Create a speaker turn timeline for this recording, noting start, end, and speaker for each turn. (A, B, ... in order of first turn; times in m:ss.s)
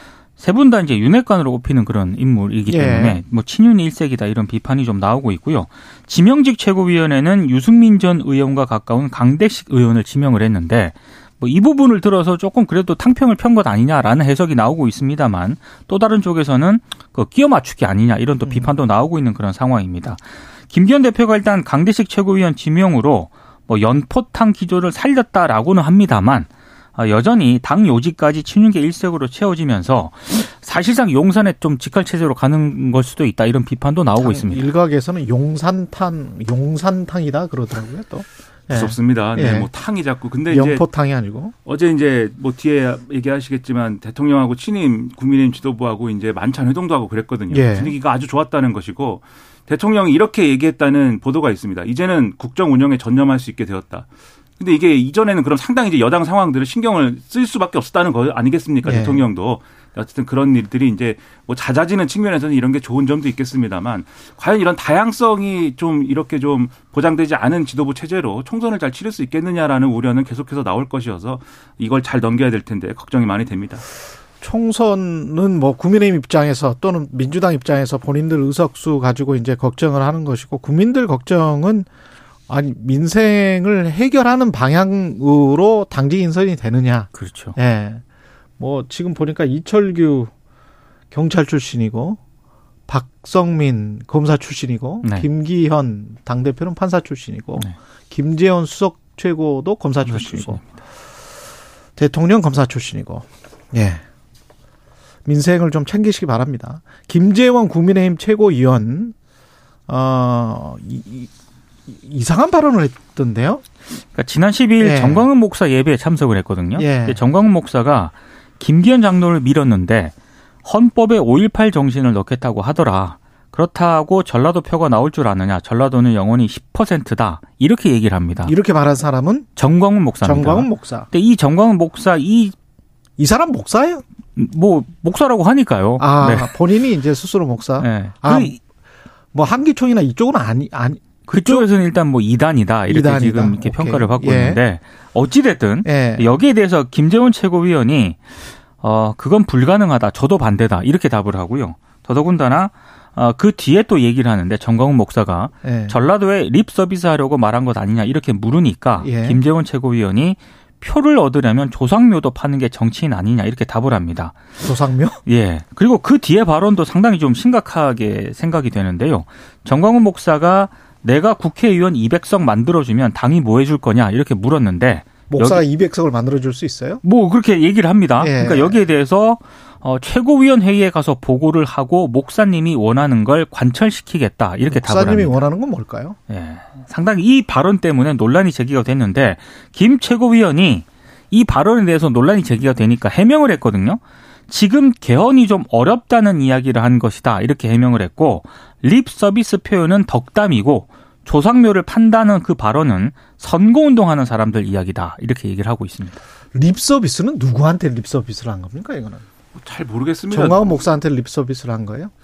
0:00.4-0:34.7 A
0:02.7-0:03.2 B
0:18.4-0:18.7 B
0:34.2-0:39.7 B
0:38.7-0:40.8 C
0:40.5-0:41.5 B
0:41.6-0:54.0 C
0:47.5-0:47.9 B
0:54.6-1:13.8 C
0:58.8-0:59.2 B
1:14.4-1:21.9 B
1:22.5-1:28.0 B
1:27.1-1:27.6 A
1:28.6-1:30.3 B
1:31.1-1:32.2 B
1:32.9-1:40.8 B
1:40.0-1:40.7 A
1:42.0-1:44.0 B
1:45.2-1:49.1 B
1:49.9-1:51.3 B
1:51.9-1:53.6 B
1:54.0-2:08.5 A
1:54.8-1:55.3 B
1:56.8-1:57.2 B
2:08.4-2:09.5 B
2:09.6-2:12.5 A
2:10.2-2:11.1 B
2:13.2-2:14.0 B
2:14.3-2:16.6 A
2:16.0-2:18.6 B
2:17.8-2:18.6 A
2:19.3-2:21.7 B
2:21.3-2:44.4 A
2:22.9-2:24.6 B
2:25.8-2:26.4 B
2:35.6-2:36.0 B
2:39.0-2:39.4 B
2:44.6-2:45.2 B
2:45.2-2:55.6 A
2:55.3-2:57.0 B
2:57.0-3:05.4 A
2:58.2-2:58.8 B
3:04.7-3:06.2 B
3:06.3-3:26.2 A
3:26.5-3:29.2 B
3:29.5-3:30.8 C
3:30.3-3:32.1 B